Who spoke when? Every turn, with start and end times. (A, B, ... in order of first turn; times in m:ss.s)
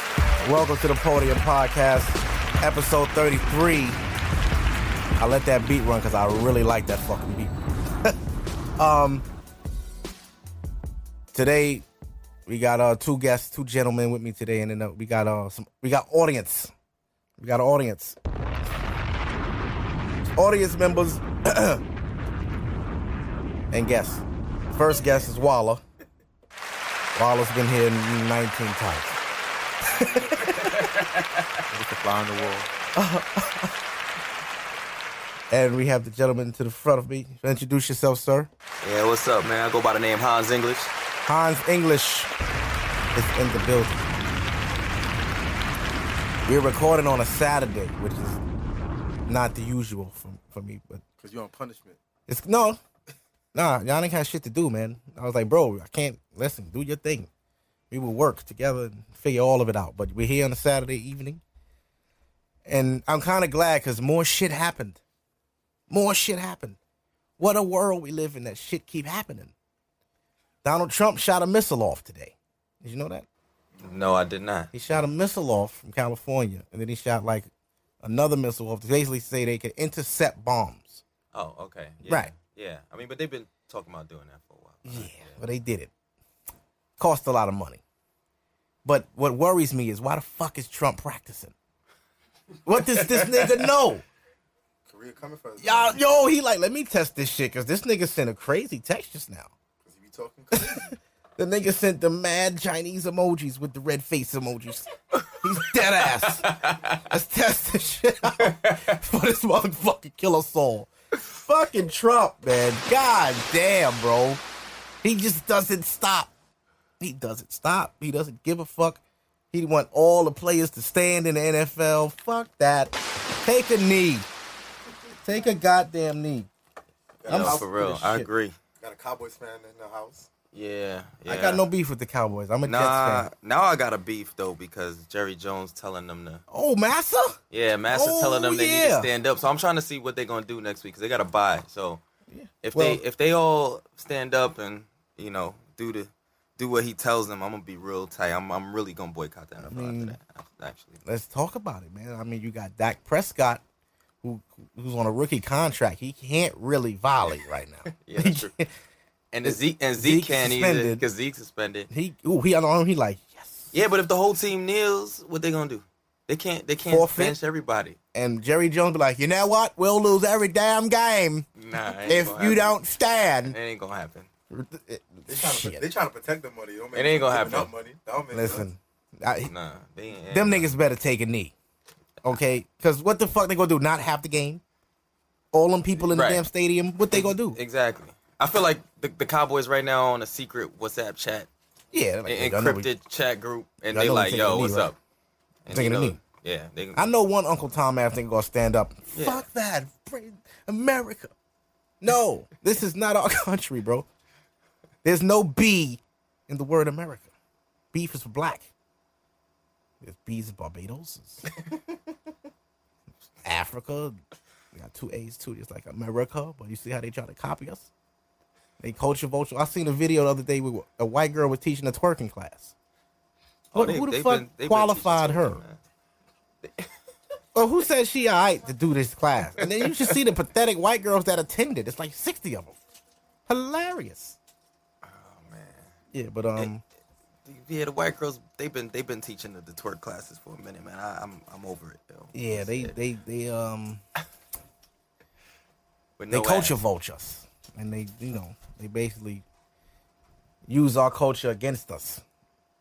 0:00.4-0:04.0 A
0:05.2-0:08.2 A
0:08.8-0:09.3 A
0:11.3-0:11.8 A
0:12.5-0:16.7 A
0:17.4-0:18.2 A
0:20.4-0:21.8 A
0:23.7-0:24.2 A
0:24.7-0:25.8 A
0:27.2-0:29.2 A
0:29.8-0:30.8 A
0:30.0-0:30.6 B
0:30.6-0:31.5 C
0:31.9-0:32.7 B
0:33.0-0:33.7 A
0:35.5-0:38.5 A
0:38.8-0:40.9 C
0:41.2-0:42.3 A
0:43.1-0:44.1 A
0:46.5-0:48.4 A
0:49.3-0:51.0 A
0:51.2-0:52.0 B
0:52.3-0:52.8 A
0:53.5-0:57.3 A
0:57.9-1:01.4 A
1:02.7-1:05.0 A
1:05.9-1:06.8 A
1:07.4-1:09.5 A
1:10.6-1:13.3 A
1:13.8-1:14.7 C
1:14.7-1:17.5 A
1:18.0-1:21.0 A
1:21.3-1:25.4 C
1:22.0-1:22.3 A
1:24.8-1:25.9 A
1:27.0-1:27.8 A
1:28.8-1:31.5 A
1:32.7-1:34.0 A
1:34.9-1:36.0 B
1:35.6-1:39.5 A
1:39.8-1:40.9 B
1:40.5-1:46.5 A
1:45.2-1:45.4 C
1:46.0-1:47.0 C
1:47.1-1:54.4 A
1:48.4-1:49.0 C
1:55.0-1:56.3 A
1:57.0-1:59.0 A
1:59.5-2:04.3 A
2:05.2-2:06.5 A
2:07.2-2:07.7 B
2:07.3-2:08.3 A
2:07.3-2:08.5 C
2:08.8-2:10.3 B
2:10.5-2:11.6 C
2:11.3-2:13.3 A
2:12.6-2:16.4 C
2:16.5-2:17.4 A
2:17.5-2:22.0 C
2:17.9-2:19.1 A
2:22.3-2:23.0 A
2:22.6-2:31.0 C
2:29.6-2:30.2 A
2:31.0-2:33.6 A
2:34.2-2:38.7 A
2:37.8-2:38.5 C
2:39.3-2:41.9 C
2:39.4-2:41.0 A
2:41.9-2:43.7 A
2:43.7-2:48.0 C
2:46.9-2:47.4 A
2:48.1-2:51.5 A
2:51.6-2:52.8 C
2:52.0-2:53.6 A
2:53.4-2:54.3 C
2:54.5-2:55.8 A
2:55.3-2:58.6 B
2:57.0-2:57.7 C
2:58.3-2:59.5 A
2:59.4-3:00.7 C
3:00.3-3:01.5 A
3:02.2-3:04.6 A
3:05.5-3:07.6 A
3:06.1-3:06.4 C
3:07.1-3:11.5 C
3:11.9-3:12.9 A
3:12.3-3:15.0 C
3:13.9-3:14.9 A
3:15.6-3:17.1 C
3:15.7-3:16.2 A
3:17.0-3:21.3 A
3:19.1-3:19.4 C
3:22.0-3:24.1 A
3:25.0-3:27.3 A
3:27.9-3:28.7 A
3:30.0-3:31.4 A
3:33.4-3:34.2 A
3:34.7-3:37.9 A
3:38.8-3:42.7 A
3:43.7-3:45.8 C
3:43.7-3:45.6 A
3:47.6-3:52.8 A
3:49.6-3:50.2 C
3:53.5-3:54.4 A
3:55.0-3:55.9 C
3:56.1-3:56.8 A
3:57.4-4:03.0 C
4:02.3-4:04.0 A
4:06.2-4:06.8 C
4:06.3-4:09.4 A
4:10.7-4:12.2 A